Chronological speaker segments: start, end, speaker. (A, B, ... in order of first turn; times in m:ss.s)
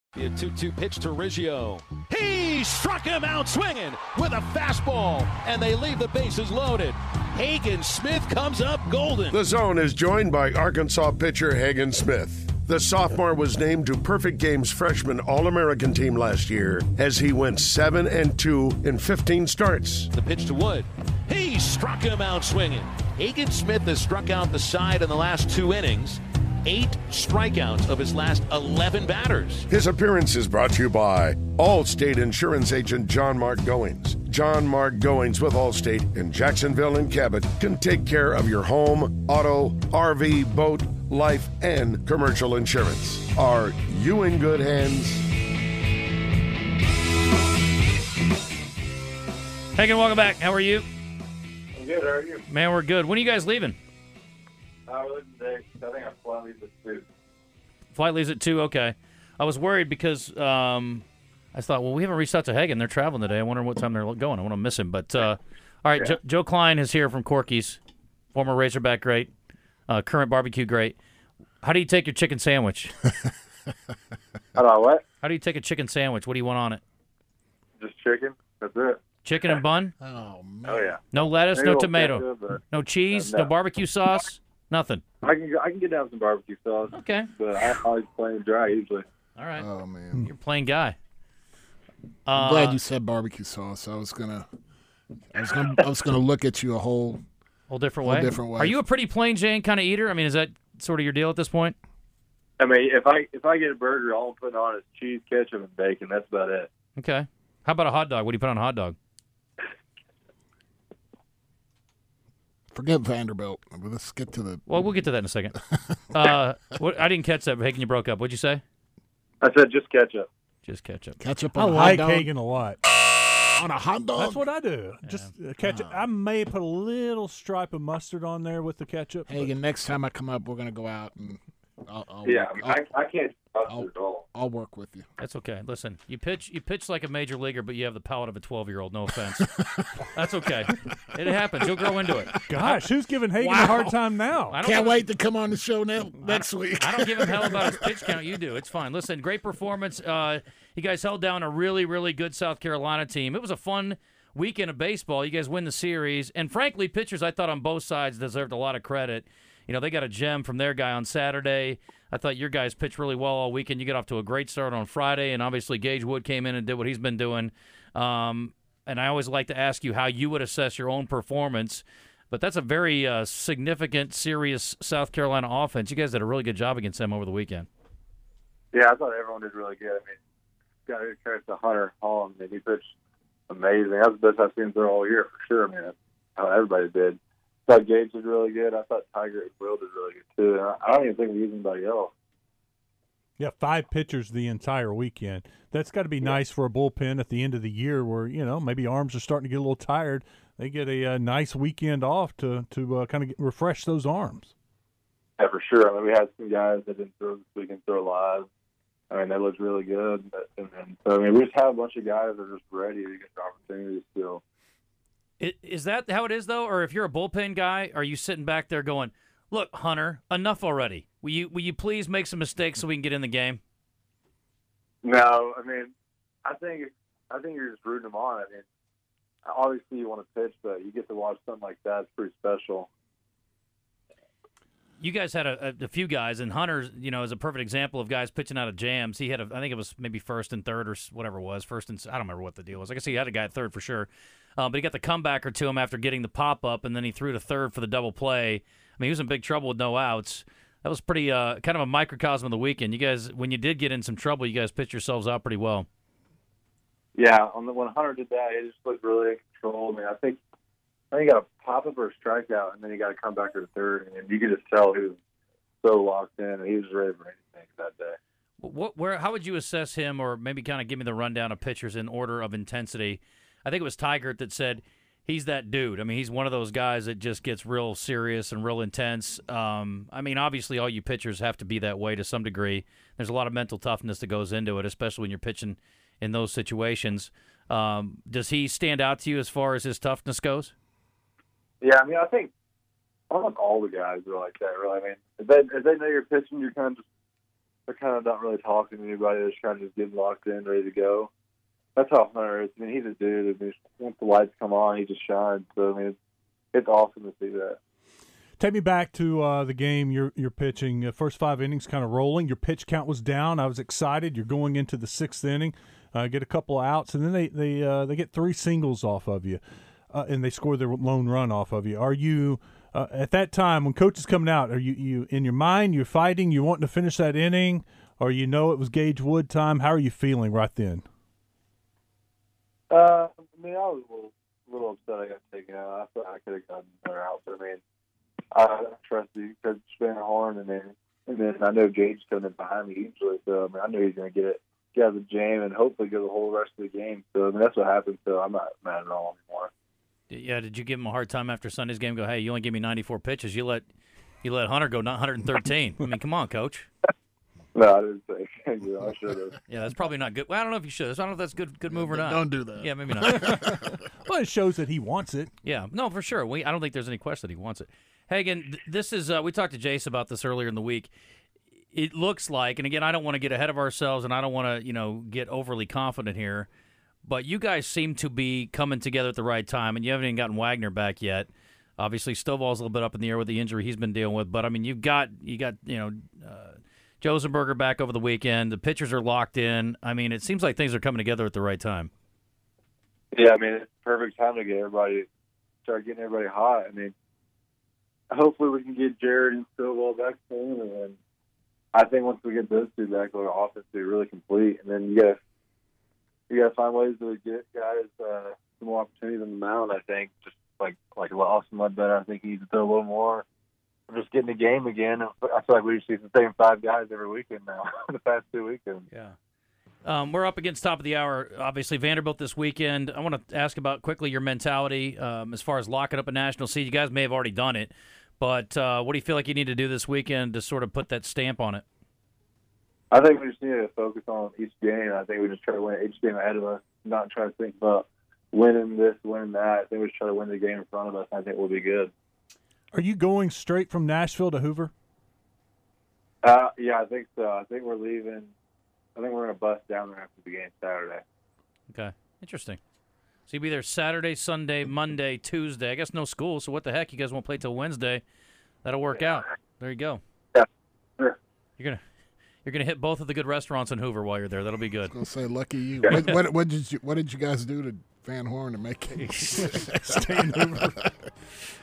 0:00.2-0:09.4 A
0:09.3-0:20.1 B
0:20.1-0:29.7 A
0:29.7-0:45.3 B
0:49.8-0:50.9 C
0:51.8-0:52.5 D
0:52.5-0:53.8 C
0:54.9-0:57.0 D
0:57.9-1:07.8 C
1:08.3-1:09.3 C
1:09.9-1:11.0 C
1:11.6-1:12.9 C
1:14.6-1:15.0 D
1:15.2-1:16.8 C
1:17.8-1:19.0 D
1:19.2-1:19.9 C
1:20.0-1:21.0 E
1:20.7-1:21.0 D
1:21.1-1:25.0 C
1:21.6-1:23.5 D
1:25.2-1:29.0 D
1:26.9-1:27.3 C
1:29.4-1:29.7 C
1:29.6-1:30.3 E
1:30.2-1:31.0 C
1:32.3-1:32.8 C
1:32.3-1:34.5 E
1:35.3-1:37.2 E
1:37.7-1:41.8 C
1:38.0-1:38.8 E
1:42.6-1:46.7 D
1:47.0-1:49.0 C
1:52.7-1:54.8 E
1:54.7-1:55.6 C
1:55.9-1:56.2 E
1:56.1-1:58.6 C
1:59.4-2:00.3 D
2:00.6-2:01.2 C
2:01.2-2:02.3 E
2:01.6-2:02.8 F
2:03.6-2:04.5 E
2:04.2-2:09.5 F
2:05.0-2:05.3 C
2:05.6-2:06.0 E
2:09.3-2:12.8 E
2:12.2-2:14.3 D
2:13.7-2:15.1 E
2:15.2-2:19.5 C
2:19.4-2:19.9 E
2:20.1-2:22.8 C
2:22.5-2:24.6 F
2:23.4-2:24.1 E
2:24.5-2:25.1 C
2:24.6-2:28.2 E
2:26.2-2:57.7 C
2:58.7-3:00.2 D
3:00.9-3:02.9 D
3:03.5-3:12.1 D
3:13.4-3:24.5 F
3:25.4-3:28.5 D
3:29.1-3:34.4 D
3:35.4-3:43.6 C
3:45.0-3:45.9 D
3:46.4-3:48.6 D
3:49.5-3:52.9 D
3:55.0-4:15.9 C
4:17.2-4:20.4 D
4:21.1-4:25.2 D
4:25.8-4:28.2 D
4:28.6-4:50.7 C
4:51.8-4:52.5 D
4:53.3-4:57.0 D
4:57.9-5:01.3 D
5:02.0-5:06.2 D
5:06.7-5:07.8 D
5:08.6-5:19.6 F
5:20.1-5:31.0 F
5:32.9-5:37.8 D
5:38.5-5:49.7 D
5:50.3-5:53.9 C
5:54.4-5:56.9 C
5:57.7-5:59.6 D
5:59.7-6:03.8 C
6:01.9-6:04.0 E
6:03.9-6:05.5 F
6:05.6-6:11.1 C
6:11.9-6:16.7 C
6:17.2-6:32.1 C
6:33.3-6:35.3 D
6:35.8-6:37.1 D
6:38.3-6:41.2 D
6:41.9-6:45.4 D
6:46.5-6:53.4 D
6:54.1-6:59.1 D
6:59.1-6:59.4 C
7:00.0-7:11.8 C
7:13.1-7:22.1 D
7:22.9-7:24.9 F
7:26.4-7:28.5 D
7:29.2-7:31.2 D
7:31.9-7:32.8 C
7:33.5-7:38.2 C
7:38.8-7:40.2 C
7:42.6-7:45.2 C
7:45.1-7:51.2 E
7:49.1-7:49.8 C
7:50.0-7:50.9 F